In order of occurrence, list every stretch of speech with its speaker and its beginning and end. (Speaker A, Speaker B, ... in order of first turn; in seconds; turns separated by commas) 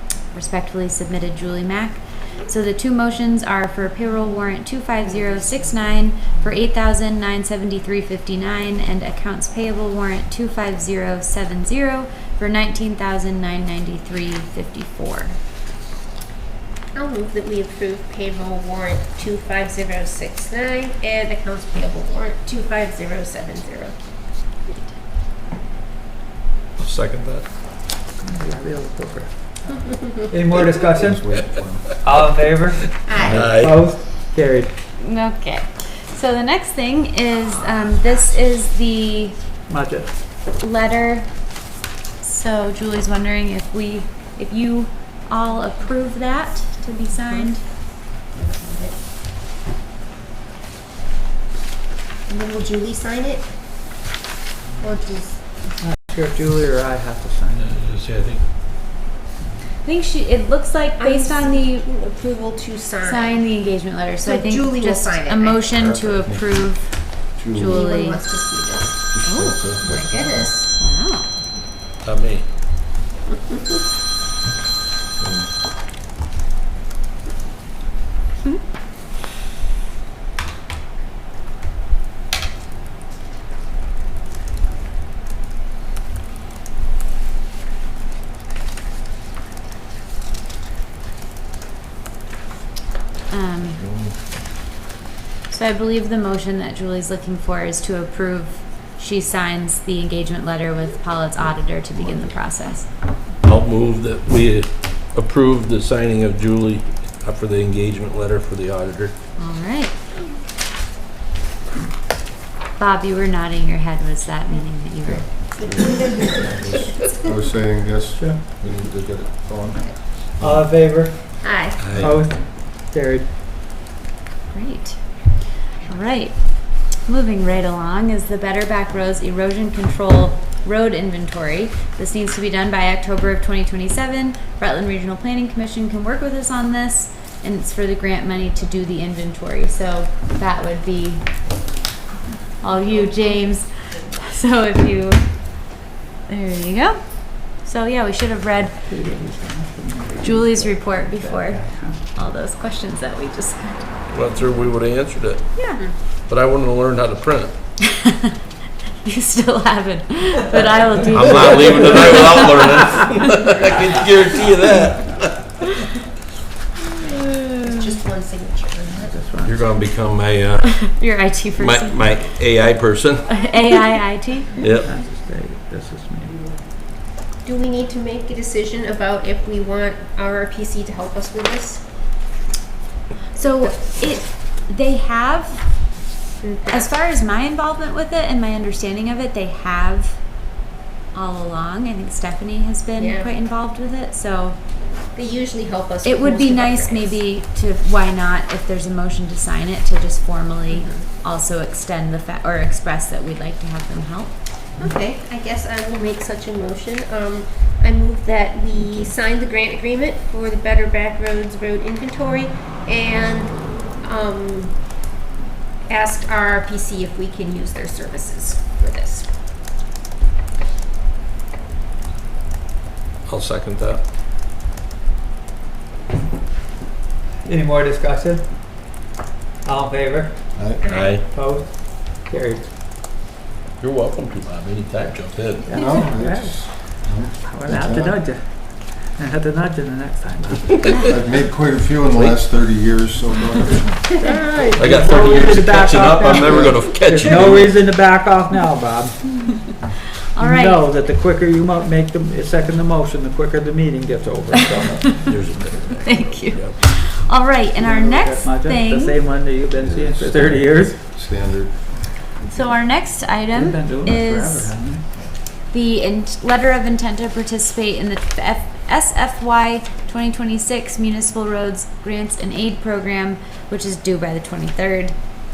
Speaker A: 0.3-15.4, Speaker B: 16.9-23.9, Speaker C: 26.8-27.4, Speaker D: 28.2-29.3, Speaker B: 29.7-30.3, Speaker D: 30.3-31.4, Speaker E: 30.9-31.9, Speaker D: 32.0-32.9, Speaker B: 33.0-33.5, Speaker C: 33.2-33.8, Speaker D: 33.4-34.7, Speaker A: 35.0-39.4, Speaker D: 39.7-40.1, Speaker A: 40.5-41.4, Speaker A: 42.2-47.6, Speaker B: 48.3-49.0, Speaker B: 52.3-53.5, Speaker B: 54.8-55.4, Speaker D: 55.8-57.7, Speaker C: 57.6-58.4, Speaker A: 59.8-61.9, Speaker B: 61.0-63.4, Speaker A: 63.0-68.2, Speaker B: 64.2-66.2, Speaker E: 66.2-66.5, Speaker E: 67.3-67.9, Speaker B: 67.6-69.0, Speaker E: 69.1-70.5, Speaker A: 69.2-69.6, Speaker B: 69.8-70.7, Speaker A: 70.8-71.3, Speaker C: 72.0-72.5, Speaker B: 73.3-73.8, Speaker E: 75.2-75.5, Speaker A: 93.3-93.8, Speaker E: 93.8-94.1, Speaker A: 95.5-102.9, Speaker C: 103.4-109.1, Speaker A: 109.4-109.9, Speaker A: 112.8-115.3, Speaker E: 115.5-120.7, Speaker B: 115.6-117.2, Speaker D: 118.2-118.4, Speaker D: 120.4-121.3, Speaker B: 121.4-122.0, Speaker C: 121.8-122.3, Speaker D: 122.0-123.3, Speaker A: 124.5-141.3, Speaker A: 142.6-145.6, Speaker A: 146.3-148.9, Speaker D: 148.9-152.0, Speaker A: 150.2-153.9, Speaker C: 154.1-155.5, Speaker A: 155.6-155.8, Speaker C: 156.3-157.5, Speaker A: 157.8-158.3, Speaker A: 159.0-163.1, Speaker C: 161.1-165.3, Speaker A: 167.0-167.7, Speaker B: 167.6-169.2, Speaker D: 169.0-169.6, Speaker C: 169.4-170.9, Speaker A: 170.8-172.1, Speaker C: 171.6-173.4, Speaker A: 173.3-174.6, Speaker C: 174.6-174.9, Speaker D: 174.8-176.4, Speaker B: 177.4-181.8, Speaker A: 183.4-185.8, Speaker B: 186.4-186.9, Speaker A: 186.7-190.2, Speaker A: 191.1-194.6, Speaker B: 193.0-193.3, Speaker B: 195.1-197.2, Speaker A: 196.0-204.3, Speaker B: 200.8-201.0, Speaker B: 204.8-215.0, Speaker B: 215.9-219.3, Speaker C: 223.3-224.0, Speaker D: 227.4-228.4, Speaker D: 229.6-230.5, Speaker E: 230.6-230.8, Speaker B: 230.8-231.2, Speaker C: 230.8-231.2, Speaker D: 231.3-232.7, Speaker C: 233.8-235.7, Speaker D: 235.7-236.7, Speaker E: 235.7-238.2, Speaker D: 237.4-240.9, Speaker A: 240.8-241.2, Speaker E: 241.0-244.1, Speaker B: 244.2-244.8, Speaker D: 244.2-249.2, Speaker C: 244.7-247.8, Speaker A: 250.3-250.9, Speaker D: 250.4-255.3, Speaker C: 255.3-256.8, Speaker A: 256.0-259.2, Speaker D: 257.8-261.0, Speaker E: 259.8-261.8, Speaker A: 262.4-264.7, Speaker D: 263.5-265.1, Speaker A: 265.7-275.2